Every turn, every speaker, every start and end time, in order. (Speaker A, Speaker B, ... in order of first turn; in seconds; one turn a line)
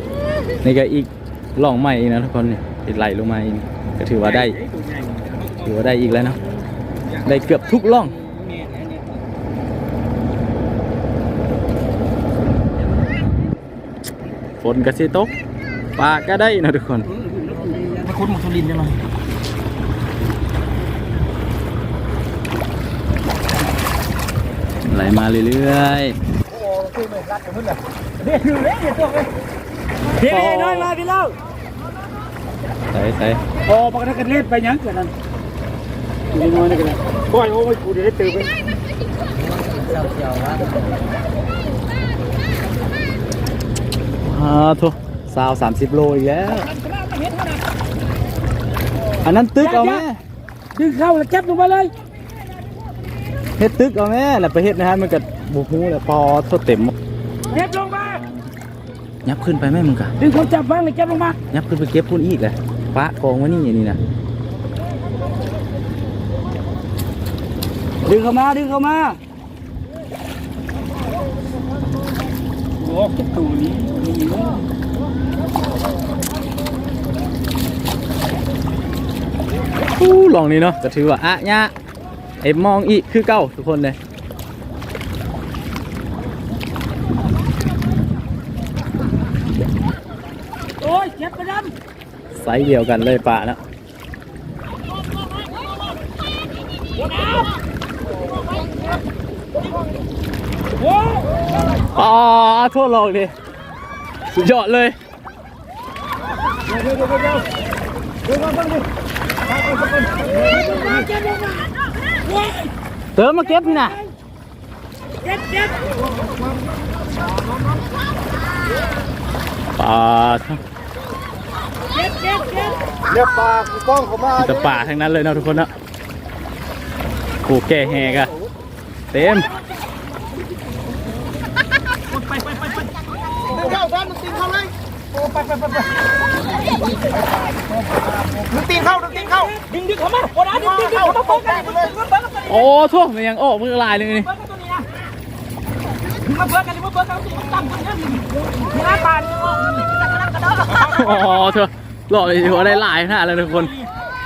Speaker A: 0.6-4.6
Speaker B: 4.2-5.7
Speaker A: 5.6-6.4
Speaker A: 7.2-8.1
Speaker B: 8.2-9.2
Speaker A: 14.6-15.3
Speaker A: 16.0-17.1
Speaker B: 17.3-19.0
Speaker A: 24.9-26.2
Speaker B: 26.6-29.3
Speaker B: 30.2-31.4
Speaker A: 30.2-31.0
Speaker A: 32.9-33.4
Speaker B: 33.7-35.1
Speaker B: 36.3-38.5
Speaker C: 39.4-40.7
Speaker A: 44.2-46.7
Speaker B: 46.5-47.6
Speaker A: 49.2-50.2
Speaker B: 49.6-50.0
Speaker B: 50.8-52.0
Speaker A: 53.6-56.9
Speaker B: 57.5-58.2
Speaker A: 58.0-58.5
Speaker A: 59.2-60.1
Speaker B: 60.2-61.4
Speaker A: 61.5-64.0
Speaker B: 68.0-69.2
Speaker B: 72.8-74.6
Speaker A: 80.0-81.7
Speaker A: 82.4-84.0
Speaker B: 90.8-91.7
Speaker A: 92.3-93.6
Speaker B: 97.0-97.5
Speaker B: 100.8-101.3
Speaker A: 101.9-103.3
Speaker A: 104.3-105.0
Speaker B: 107.0-107.4
Speaker B: 109.9-112.7
Speaker A: 113.2-114.0
Speaker B: 115.2-115.9
Speaker A: 119.8-120.6
Speaker B: 121.9-123.2
Speaker C: 123.1-124.1
Speaker A: 124.2-125.7
Speaker A: 127.4-128.3
Speaker A: 129.1-129.5
Speaker B: 132.1-132.9
Speaker B: 133.5-133.9
Speaker C: 133.5-134.7
Speaker B: 135.1-136.0
Speaker C: 136.6-136.9
Speaker B: 138.3-142.7
Speaker C: 138.6-139.0
Speaker A: 142.5-144.3
Speaker B: 144.1-144.9
Speaker B: 146.2-151.3
Speaker A: 150.7-153.7